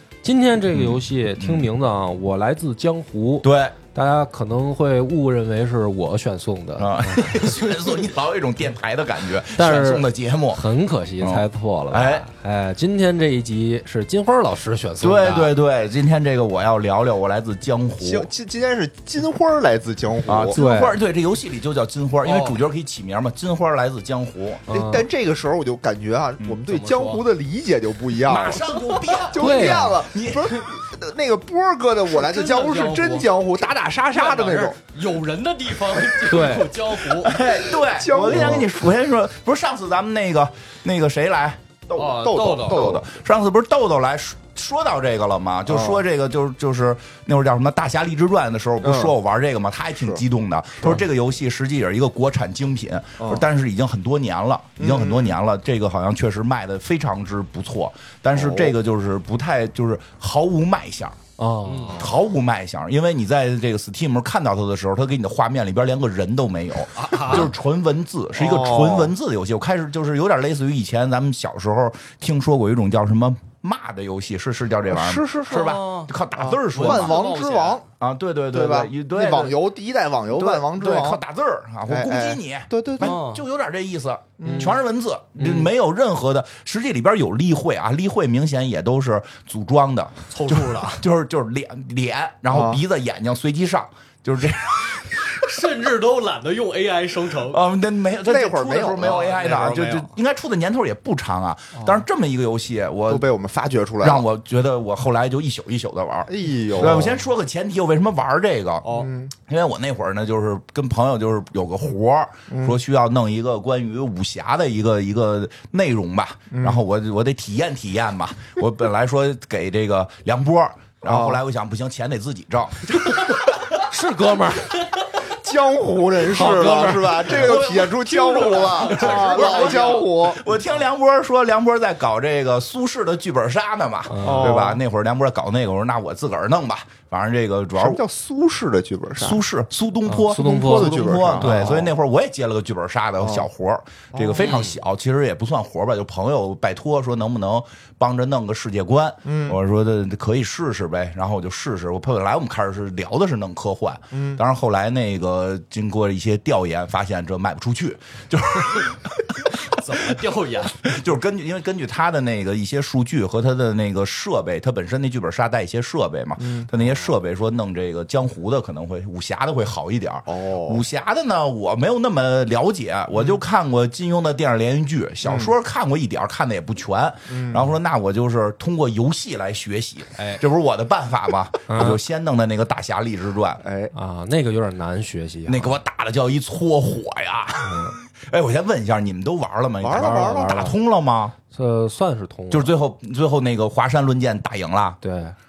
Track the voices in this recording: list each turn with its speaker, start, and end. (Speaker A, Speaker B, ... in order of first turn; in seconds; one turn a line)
Speaker A: 0.2-7.7
Speaker B: 0.7-1.7
Speaker B: 3.4-3.8
Speaker B: 6.8-10.6
Speaker A: 9.5-15.5
Speaker B: 11.2-12.2
Speaker B: 15.0-18.3
Speaker C: 18.0-20.6
Speaker B: 20.2-24.7
Speaker A: 20.5-21.0
Speaker D: 22.2-22.6
Speaker C: 24.7-28.7
Speaker A: 24.7-25.1
Speaker D: 26.7-27.3
Speaker B: 28.2-30.6
Speaker D: 28.7-29.2
Speaker C: 29.2-34.8
Speaker A: 29.4-30.0
Speaker D: 32.0-33.3
Speaker D: 34.1-37.5
Speaker A: 36.3-36.7
Speaker B: 37.1-61.2
Speaker C: 37.8-38.7
Speaker A: 38.3-38.6
Speaker D: 41.9-43.0
Speaker C: 42.0-43.1
Speaker C: 45.7-46.0
Speaker C: 48.8-49.1
Speaker C: 53.2-53.4
Speaker C: 54.8-55.4
Speaker C: 58.3-58.7
Speaker A: 61.4-62.0
Speaker D: 61.6-62.1
Speaker B: 62.0-77.2
Speaker D: 66.9-67.5
Speaker C: 68.3-69.1
Speaker C: 74.8-75.7
Speaker D: 75.4-76.1
Speaker C: 76.3-77.8
Speaker D: 76.7-77.8
Speaker B: 78.0-79.6
Speaker C: 78.5-81.2
Speaker B: 80.3-95.5
Speaker C: 81.9-83.2
Speaker D: 83.0-83.4
Speaker C: 84.4-84.8
Speaker D: 85.4-85.7
Speaker D: 90.3-91.0
Speaker C: 92.5-92.8
Speaker D: 95.3-97.6
Speaker B: 97.5-103.2
Speaker C: 98.2-99.2
Speaker D: 99.0-100.1
Speaker C: 101.8-102.0
Speaker C: 103.1-104.2
Speaker B: 104.0-123.8
Speaker C: 106.3-107.2
Speaker D: 108.8-109.1
Speaker C: 108.9-109.3
Speaker C: 112.5-112.8
Speaker C: 116.5-116.8
Speaker C: 121.0-121.4
Speaker A: 123.8-124.8
Speaker C: 125.2-130.4
Speaker A: 126.2-127.3
Speaker B: 127.2-138.0
Speaker D: 127.4-130.1
Speaker A: 134.1-134.6
Speaker C: 134.2-134.8
Speaker C: 137.8-139.4
Speaker B: 139.2-160.1
Speaker A: 140.1-141.9
Speaker C: 140.3-141.9
Speaker C: 143.2-143.5
Speaker C: 144.1-144.5
Speaker D: 144.3-144.8
Speaker C: 149.2-149.6
Speaker C: 154.1-154.4
Speaker D: 159.6-160.9
Speaker B: 160.8-183.6
Speaker C: 166.4-166.7
Speaker C: 170.3-170.8
Speaker C: 175.2-175.5
Speaker C: 177.3-177.7
Speaker A: 181.7-182.0
Speaker C: 183.6-183.9
Speaker A: 183.9-185.7
Speaker B: 185.5-191.3
Speaker A: 187.7-187.9
Speaker C: 189.8-190.7
Speaker A: 189.9-190.8
Speaker A: 191.5-192.7
Speaker B: 192.5-195.0
Speaker A: 195.0-195.3